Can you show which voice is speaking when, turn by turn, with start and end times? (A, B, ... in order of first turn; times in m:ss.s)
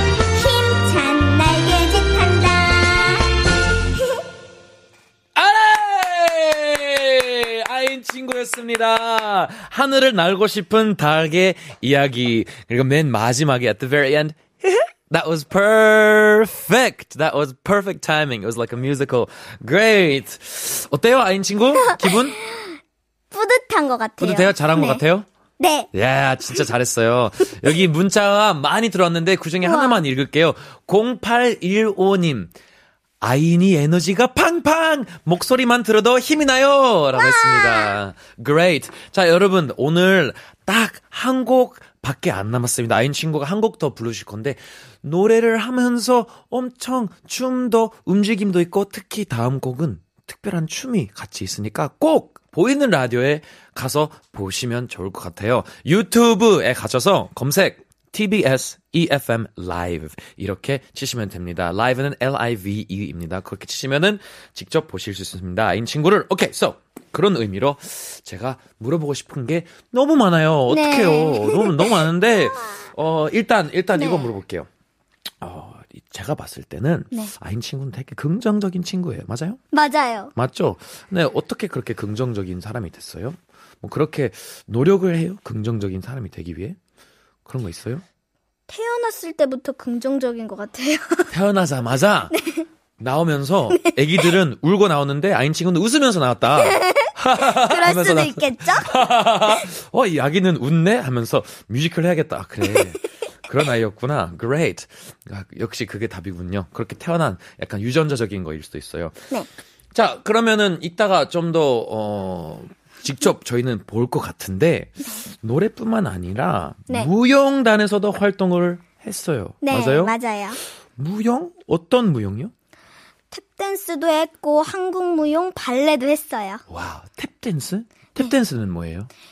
0:00.2-0:03.4 A
0:03.9-0:04.2 A
0:05.3-0:22.4 B
0:21.9-0:22.7 A
0:23.3-0:25.0 A
0:24.2-0:25.3 B
0:25.6-0:25.9 A
0:25.9-0:32.5 B
0:29.6-0:30.0 A
0:33.2-1:14.7 B
0:37.2-0:37.9 A
1:10.7-1:12.1 A
1:13.9-1:14.3 A
1:15.4-1:19.6 B
1:19.7-1:20.3 A
1:20.3-1:26.8 B
1:27.4-1:28.0 B
1:28.7-1:31.3 A
1:31.3-1:32.3 B
1:32.3-1:32.6 A
1:33.0-1:49.2 B
1:36.6-1:38.9 A
1:49.9-2:00.1 B
1:59.6-2:00.6 A
2:01.0-2:02.5 B
2:03.3-2:06.6 A
2:06.7-2:09.1 B